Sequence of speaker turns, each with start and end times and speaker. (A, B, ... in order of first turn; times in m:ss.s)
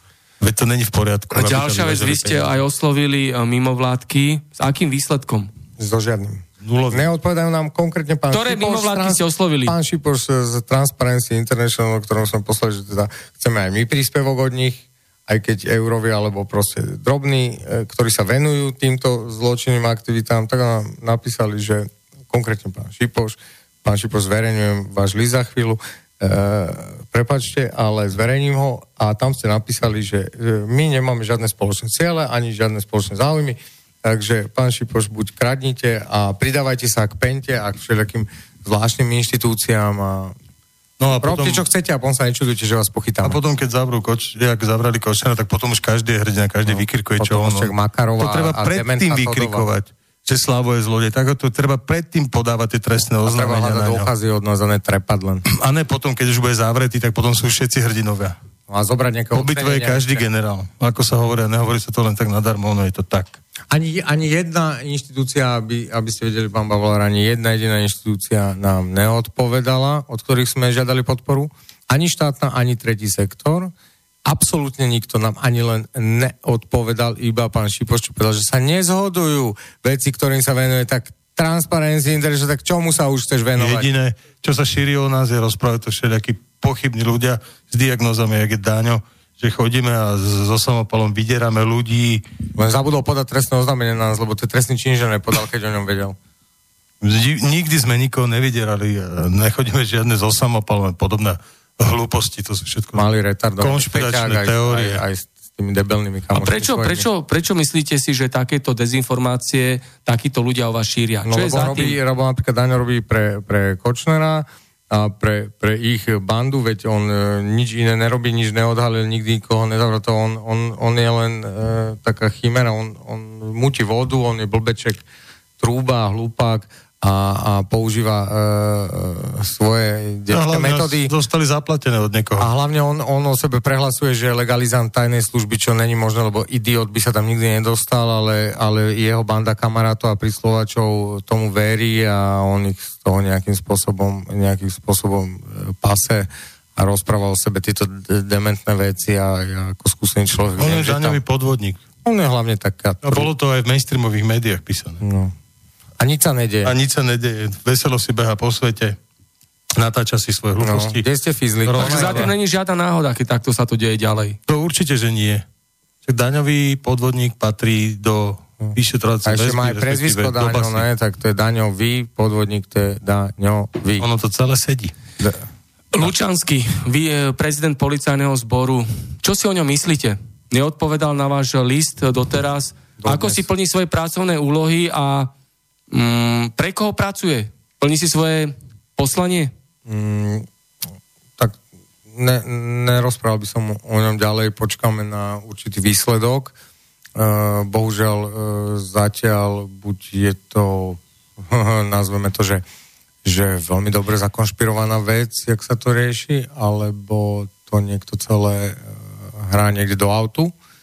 0:00.4-0:02.6 A
0:01.3-0:05.5 B
0:05.8-0:40.4 C
0:06.6-0:07.1 A
0:08.3-0:09.8 B
0:41.0-0:41.6 A
0:41.2-0:43.4 C
0:43.2-0:54.1 A
0:46.7-0:49.7 C
0:53.2-0:55.4 C
0:55.5-0:58.4 A
0:58.7-1:00.2 C
0:59.3-1:03.4 A
1:03.7-1:13.7 C
1:14.3-1:23.9 C
1:23.6-1:32.2 A
1:32.6-1:36.2 C
1:37.0-1:43.1 A
1:43.0-1:47.0 C
1:43.6-1:45.0 A
1:46.3-1:52.0 B
1:51.2-2:05.0 C
2:05.6-2:11.1 C
2:10.3-2:12.5 A
2:12.4-2:31.2 C
2:30.6-2:31.8 A
2:32.0-2:33.3 C
2:33.0-2:35.0 A
2:35.0-2:35.3 C
2:36.0-2:36.7 C
2:36.6-2:39.0 A
2:39.8-2:41.0 A
2:40.6-2:42.3 C
2:41.7-2:42.3 A
2:41.8-2:44.4 B
2:44.5-2:45.4 A
2:46.0-2:50.8 A
2:48.6-2:54.1 C
2:54.0-2:54.9 A
2:55.2-2:55.4 C
2:55.9-3:05.3 B
3:03.0-3:03.4 C
3:05.9-3:09.5 B
3:09.9-3:10.5 C
3:12.1-3:16.6 C
3:17.2-3:22.6 C
3:23.2-3:30.6 C